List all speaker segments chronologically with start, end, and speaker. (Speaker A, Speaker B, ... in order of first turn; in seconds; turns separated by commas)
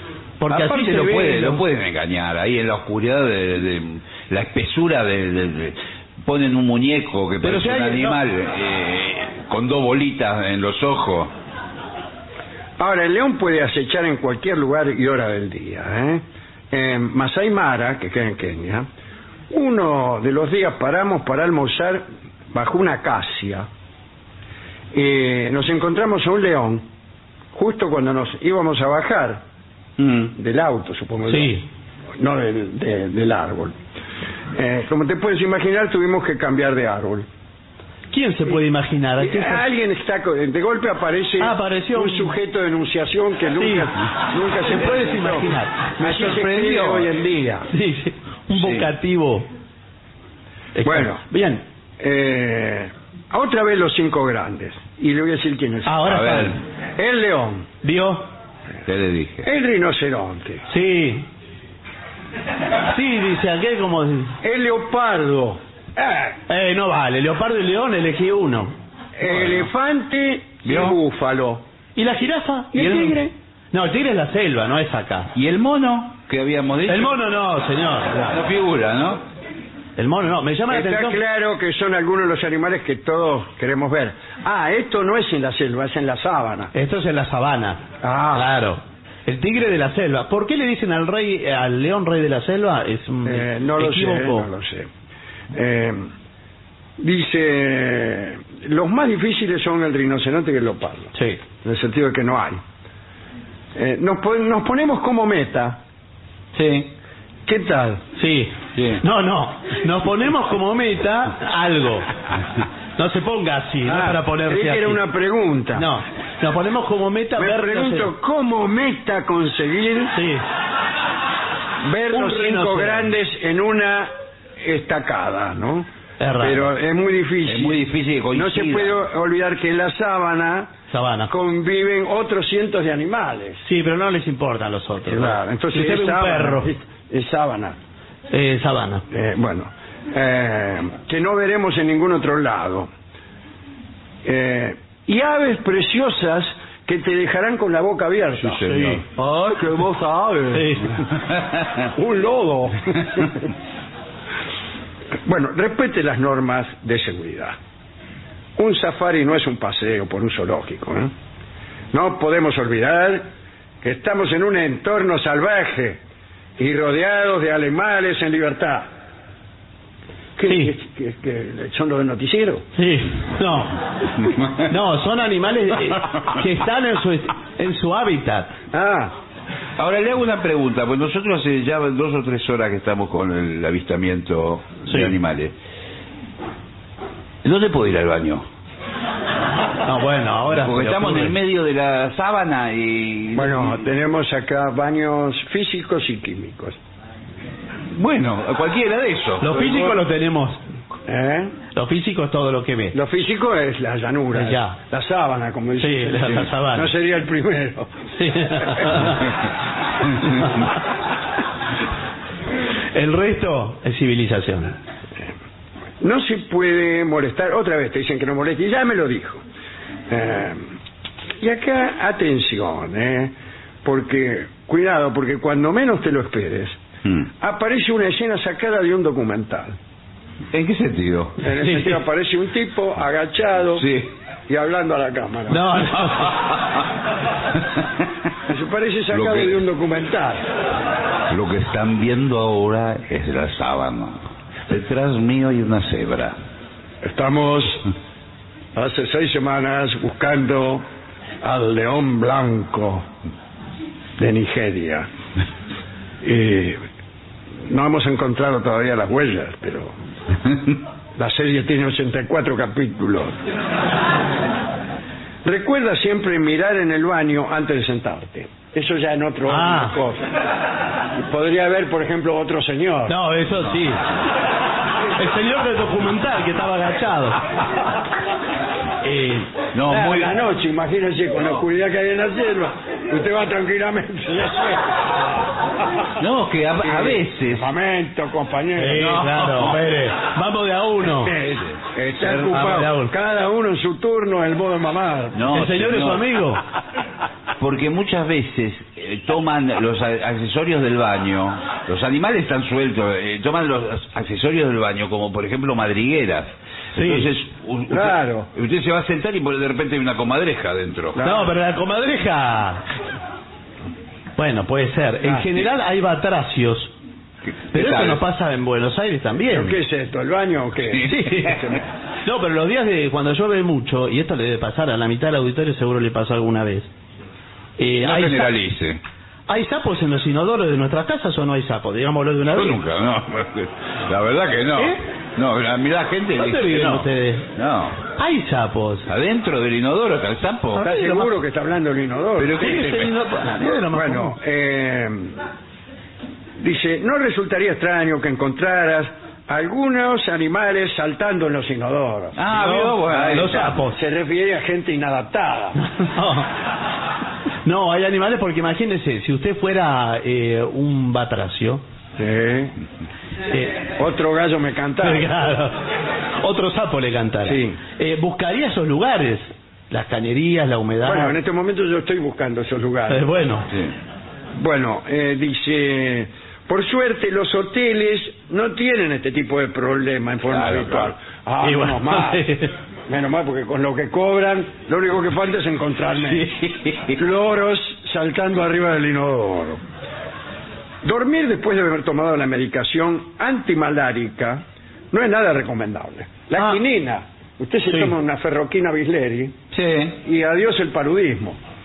Speaker A: 0.4-1.6, Speaker B: 0.5-11.3, Speaker A: 7.4-8.2, Speaker C: 12.8-18.9, Speaker C: 19.5-23.7, Speaker C: 24.9-26.9, Speaker C: 27.5-29.4, Speaker B: 30.0-30.3, Speaker C: 30.3-31.6, Speaker A: 31.3-31.6, Speaker C: 32.2-33.8, Speaker C: 34.5-37.3, Speaker A: 38.1-39.6, Speaker C: 39.2-47.7, Speaker A: 41.4-42.4, Speaker A: 43.6-43.9, Speaker A: 44.6-46.0, Speaker B: 46.0-47.1, Speaker A: 47.7-49.5, Speaker B: 48.5-48.9, Speaker A: 50.7-51.6, Speaker C: 50.8-51.2, Speaker C: 52.0-56.2, Speaker A: 55.9-56.6, Speaker B: 56.1-56.6, Speaker C: 57.0-57.7, Speaker A: 57.8-58.3, Speaker B: 58.9-59.5, Speaker C: 59.4-60.6, Speaker A: 60.7-61.3, Speaker A: 62.9-64.3, Speaker C: 64.4-66.3, Speaker A: 66.5-68.7, Speaker C: 69.2-71.6, Speaker B: 70.6-71.0, Speaker A: 72.0-73.2, Speaker C: 72.7-73.3, Speaker A: 73.7-75.3, Speaker B: 75.3-77.2, Speaker A: 76.9-78.4, Speaker B: 78.2-79.2, Speaker A: 80.0-81.2, Speaker C: 80.7-86.7, Speaker A: 86.7-94.5, Speaker C: 88.0-88.6, Speaker C: 93.2-94.9, Speaker C: 95.5-96.1, Speaker C: 97.0-102.6, Speaker A: 101.1-101.4, Speaker C: 103.7-105.8, Speaker B: 106.5-106.9, Speaker C: 107.5-108.0, Speaker A: 108.2-112.1, Speaker B: 108.8-109.0, Speaker A: 113.0-115.0, Speaker C: 113.8-115.9, Speaker A: 115.7-118.1, Speaker C: 117.4-120.2, Speaker A: 120.1-120.4, Speaker C: 121.8-125.9, Speaker A: 122.1-123.1, Speaker A: 126.2-126.7, Speaker C: 126.4-127.8, Speaker B: 127.5-129.0, Speaker C: 128.3-130.7, Speaker A: 130.9-131.3, Speaker C: 131.3-133.6, Speaker A: 133.6-136.7, Speaker C: 135.1-137.8, Speaker A: 138.3-139.1, Speaker C: 139.1-142.9, Speaker C: 144.2-148.7, Speaker B: 148.4-149.3, Speaker A: 148.7-149.0, Speaker C: 149.8-150.7, Speaker A: 150.5-151.0, Speaker C: 151.9-153.4, Speaker C: 155.2-157.6, Speaker C: 158.6-161.1, Speaker C: 161.9-163.3, Speaker C: 163.8-166.0, Speaker C: 166.6-168.9, Speaker C: 170.4-172.7, Speaker A: 170.4-170.7, Speaker A: 172.8-173.7, Speaker A: 174.7-178.5, Speaker C: 178.7-179.1, Speaker B: 179.8-185.5, Speaker B: 187.4-188.4, Speaker A: 189.8-191.3, Speaker B: 190.5-193.8, Speaker C: 193.3-196.8, Speaker B: 197.9-199.8, Speaker A: 199.4-200.6, Speaker C: 199.6-199.9, Speaker C: 201.1-201.5, Speaker A: 201.7-202.9, Speaker C: 202.9-207.9, Speaker A: 204.3-204.8, Speaker A: 205.8-206.9, Speaker A: 208.1-209.3, Speaker A: 210.2-210.6, Speaker A: 212.9-214.7, Speaker C: 216.0-219.4, Speaker C: 220.1-220.7, Speaker C: 221.4-226.8, Speaker C: 227.4-229.8, Speaker B: 230.5-231.4, Speaker C: 231.4-233.9, Speaker B: 233.8-234.1, Speaker C: 234.5-235.7, Speaker A: 235.5-236.3, Speaker C: 238.5-240.5, Speaker B: 239.1-239.6, Speaker B: 241.3-246.4, Speaker C: 247.0-247.8, Speaker C: 248.7-250.9, Speaker C: 251.4-253.1, Speaker C: 254.2-255.1, Speaker C: 256.2-256.8, Speaker C: 257.7-259.9, Speaker C: 261.2-263.4, Speaker C: 265.4-270.3, Speaker A: 269.5-269.9, Speaker C: 271.2-273.2, Speaker A: 273.1-274.1, Speaker A: 275.2-277.4, Speaker A: 279.0-279.5, Speaker B: 279.7-280.3, Speaker C: 279.9-284.9, Speaker B: 286.2-287.7, Speaker C: 286.8-289.7, Speaker A: 288.8-291.3, Speaker C: 291.2-295.4, Speaker B: 291.7-292.8, Speaker A: 292.5-293.1, Speaker B: 295.3-296.3, Speaker A: 295.5-296.6, Speaker B: 297.6-311.2, Speaker A: 306.9-307.3, Speaker C: 307.9-308.5, Speaker C: 311.1-311.5, Speaker A: 311.2-312.8, Speaker A: 314.4-316.9, Speaker B: 317.7-318.2, Speaker A: 317.7-319.8, Speaker C: 319.5-321.8, Speaker A: 321.0-321.6, Speaker A: 322.2-326.9, Speaker A: 327.8-328.5, Speaker B: 328.0-329.0, Speaker A: 329.5-332.8, Speaker B: 332.6-338.0, Speaker A: 336.4-337.5, Speaker A: 338.2-339.1, Speaker B: 339.1-340.9, Speaker A: 340.8-341.3, Speaker C: 340.8-342.9, Speaker B: 342.4-343.1, Speaker A: 342.6-344.4, Speaker C: 343.9-345.4, Speaker C: 346.6-352.4, Speaker B: 352.4-353.8, Speaker A: 352.5-353.9, Speaker C: 353.1-355.8, Speaker A: 355.9-356.5, Speaker A: 357.6-361.8, Speaker C: 362.2-362.8, Speaker A: 363.5-363.8, Speaker C: 364.0-365.3, Speaker A: 365.0-365.8, Speaker A: 366.4-371.4, Speaker C: 367.4-367.8, Speaker C: 371.0-373.3, Speaker A: 373.1-373.7, Speaker C: 374.6-382.4, Speaker B: 380.5-381.1, Speaker A: 381.6-382.7, Speaker C: 383.1-386.5, Speaker B: 386.3-387.2, Speaker C: 387.1-389.8, Speaker C: 391.0-399.6, Speaker B: 399.7-400.2, Speaker C: 400.2-401.6